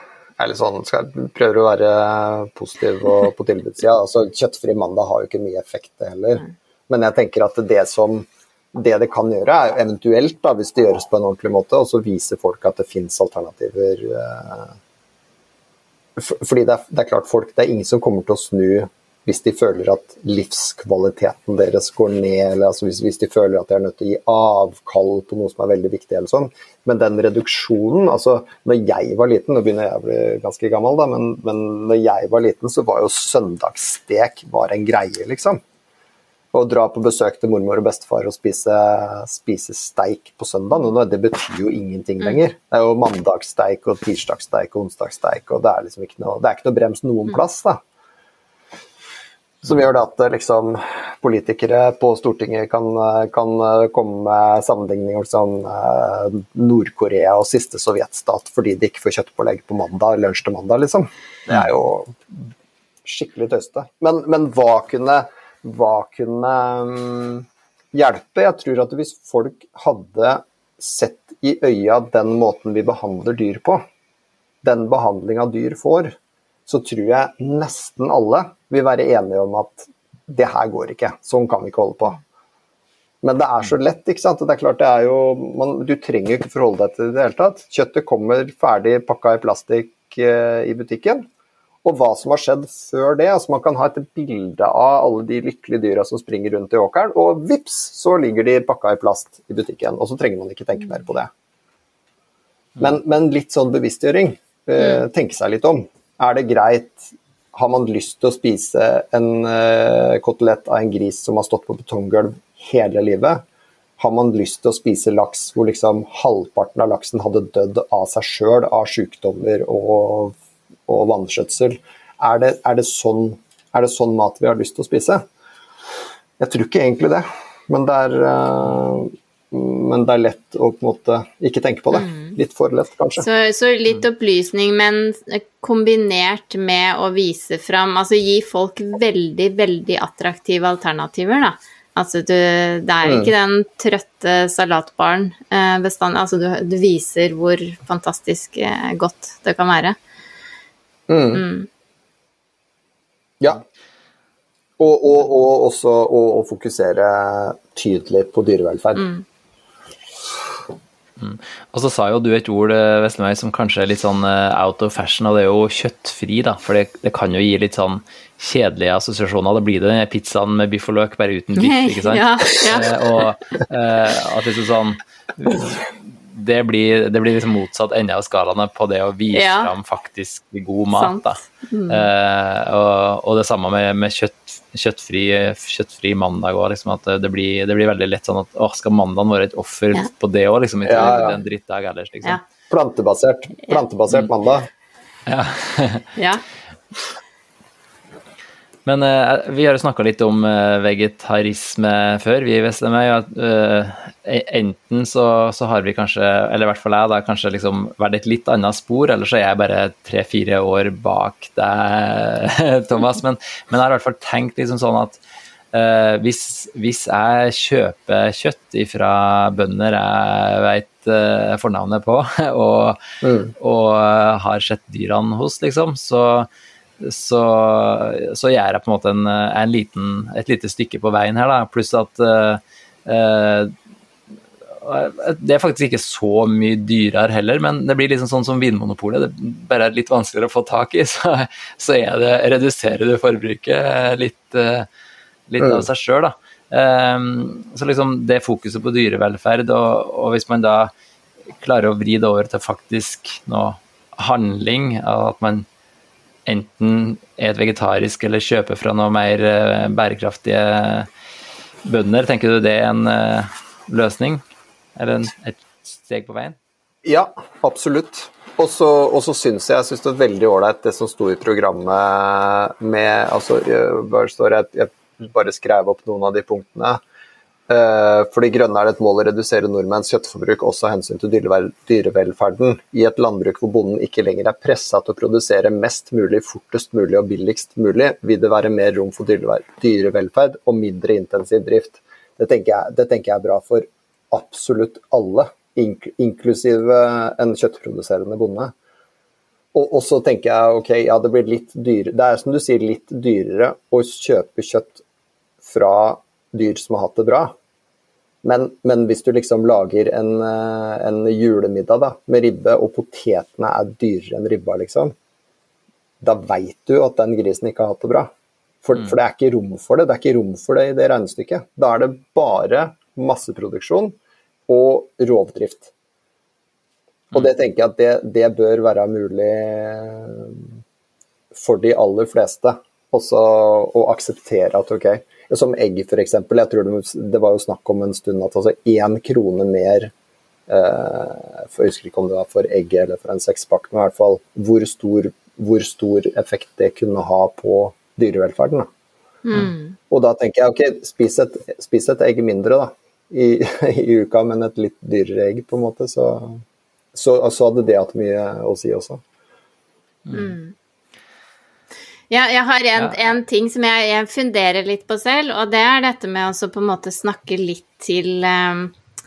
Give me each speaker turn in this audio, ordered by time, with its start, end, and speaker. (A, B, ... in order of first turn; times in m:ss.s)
0:00.4-0:14.8 A
0:16.2-0:35.6 A
0:36.5-0:47.8 A
0:49.6-1:02.5 A
1:03.0-1:13.8 A
1:14.6-1:16.1 A
1:16.7-1:22.2 A
1:23.2-1:31.2 A
1:31.8-1:41.3 A
1:42.8-1:53.4 A
1:54.0-2:00.3 A
2:00.9-2:05.2 A
2:06.4-2:13.2 A
2:11.9-2:12.3 B
2:13.2-2:30.0 B
2:23.0-2:23.3 A
2:31.1-2:31.4 A
2:31.3-2:31.7 B
2:34.8-2:39.1 A
2:39.0-2:39.2 B
2:41.2-3:01.4 C
2:51.6-2:53.0 B
2:59.3-2:59.7 B
3:00.9-3:02.0 B
3:01.9-3:12.4 C
3:10.8-3:11.4 A
3:11.0-3:11.3 B
3:12.7-3:14.7 A
3:15.3-3:16.1 C
3:16.2-3:16.4 B
3:18.8-3:35.2 C
3:35.7-3:43.0 C
3:43.2-3:43.5 A
3:43.6-3:46.5 C
3:47.0-3:53.7 C
3:54.8-4:04.9 C
4:05.5-4:10.9 C
4:05.6-4:05.8 A
4:11.6-4:15.6 C
4:16.4-4:21.1 C
4:21.8-4:24.4 C
4:25.0-4:26.6 C
4:27.0-4:37.0 A
4:37.7-4:58.7 A
4:59.7-5:05.0 A
5:05.6-5:07.5 A
5:08.4-5:15.1 A
5:16.2-5:18.3 A
5:18.8-5:24.1 A
5:24.7-5:25.9 A
5:27.3-5:30.7 A
5:31.5-5:40.1 A
5:40.7-5:48.9 A
5:49.4-5:50.0 B
5:50.1-5:56.6 A
5:57.1-5:59.2 A
6:00.3-6:00.5 C
6:00.3-6:00.7 B
6:02.3-6:08.9 B